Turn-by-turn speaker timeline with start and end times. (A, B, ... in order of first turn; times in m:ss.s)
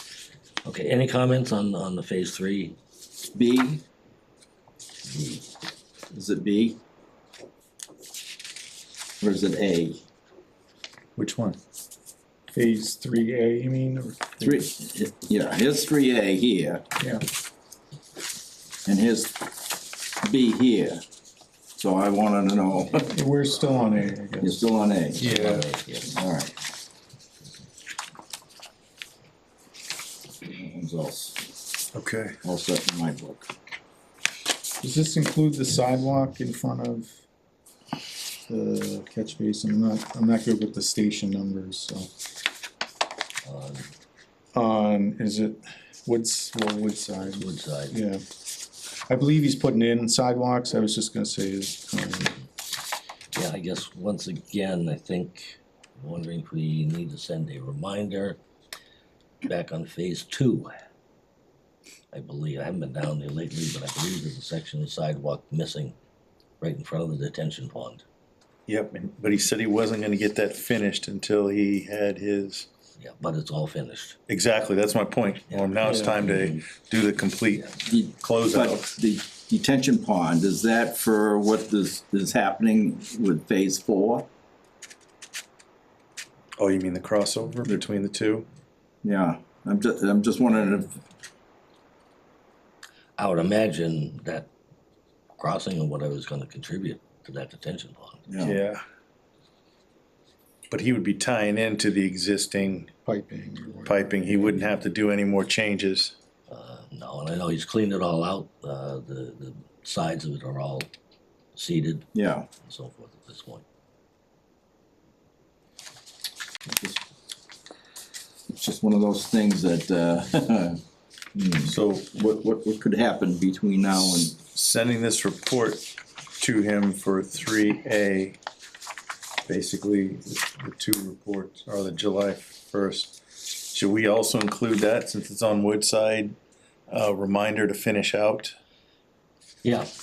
0:00.6-0:02.8 A
0:03.3-0:03.8 B
0:05.0-0:05.4 A
0:06.1-0:06.8 B
0:09.2-0:10.0 B
0:11.2-0:11.6 C
0:12.5-0:14.6 D
0:14.4-0:16.8 B
0:18.8-0:21.0 B
0:21.7-0:23.1 B
0:22.9-0:24.6 D
0:24.4-0:25.4 B
0:25.1-0:26.2 A
0:25.2-0:25.6 C
0:26.1-0:26.5 B
0:30.4-0:31.5 B
0:31.9-0:32.4 C
0:32.4-0:33.5 B
0:34.8-0:37.1 D
0:38.5-0:42.1 D
0:43.4-0:43.9 A
0:44.5-0:48.2 D
0:47.2-0:48.0 A
0:49.1-0:52.4 D
0:53.3-0:58.4 A
0:59.4-1:00.7 A
1:02.1-1:06.0 A
1:06.6-1:08.0 A
1:08.7-1:12.7 C
1:13.0-1:14.2 A
1:14.3-1:19.0 C
1:15.5-1:16.7 A
1:15.8-1:16.2 D
1:17.5-1:17.8 A
1:17.8-1:24.3 B
1:26.6-1:28.5 C
1:29.0-1:31.0 B
1:33.2-1:34.5 A
1:35.4-1:38.2 A
1:38.3-1:38.6 B
1:38.4-1:38.8 C
1:40.7-1:42.9 C
1:43.0-1:44.6 D
1:43.8-1:46.2 C
1:46.5-1:50.9 A
1:51.5-1:52.1 A
1:52.1-1:52.5 B
1:52.6-1:53.6 A
1:56.7-1:57.0 B
1:58.5-2:00.8 B
2:01.3-2:04.4 B
2:01.6-2:02.1 C
2:04.5-2:08.4 C
2:09.5-2:16.4 C
2:16.9-2:18.5 C
2:19.6-2:19.9 A